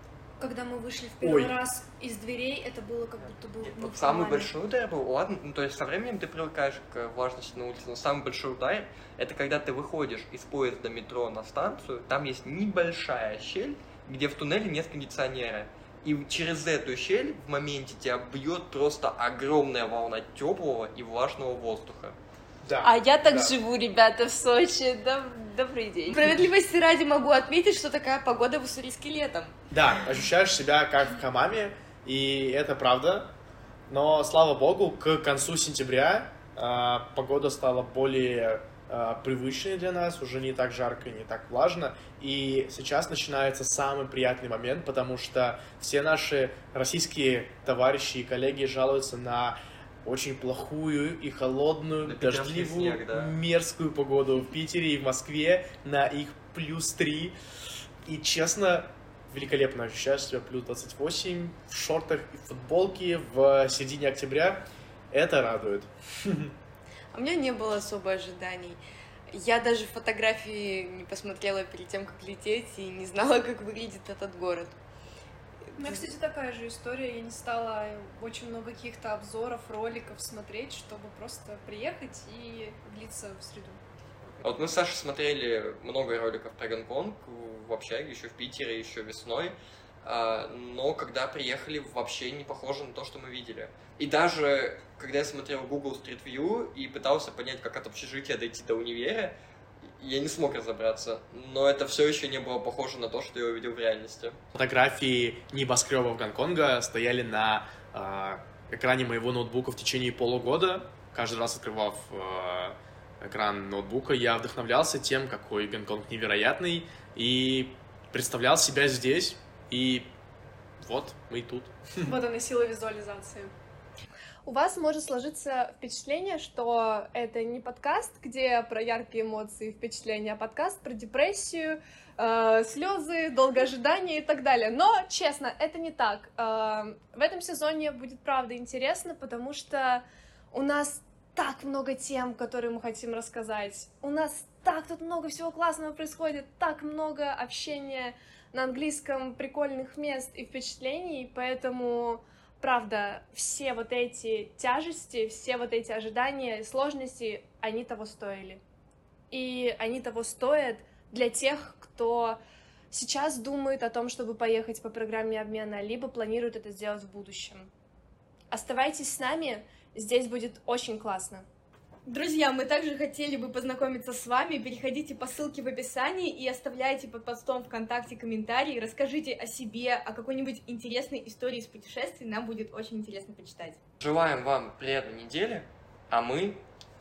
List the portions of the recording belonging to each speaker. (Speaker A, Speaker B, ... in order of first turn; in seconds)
Speaker A: 0.4-4.5, 75.8-83.8, 122.0-123.5, 124.4-158.6, 159.3-162.4, 162.9-167.7, 168.5-171.4
Speaker B: 1.2-1.6, 22.6-23.5, 29.7-33.3, 33.9-57.3, 58.0-66.4, 104.5-120.1, 120.8-122.1
Speaker C: 3.6-22.2, 52.0-53.4, 84.4-99.4, 100.0-104.4, 184.0-186.6
Speaker D: 22.8-26.2
Speaker E: 26.1-29.6, 67.1-68.8, 69.3-74.8, 75.7-76.1
Speaker F: 172.1-183.8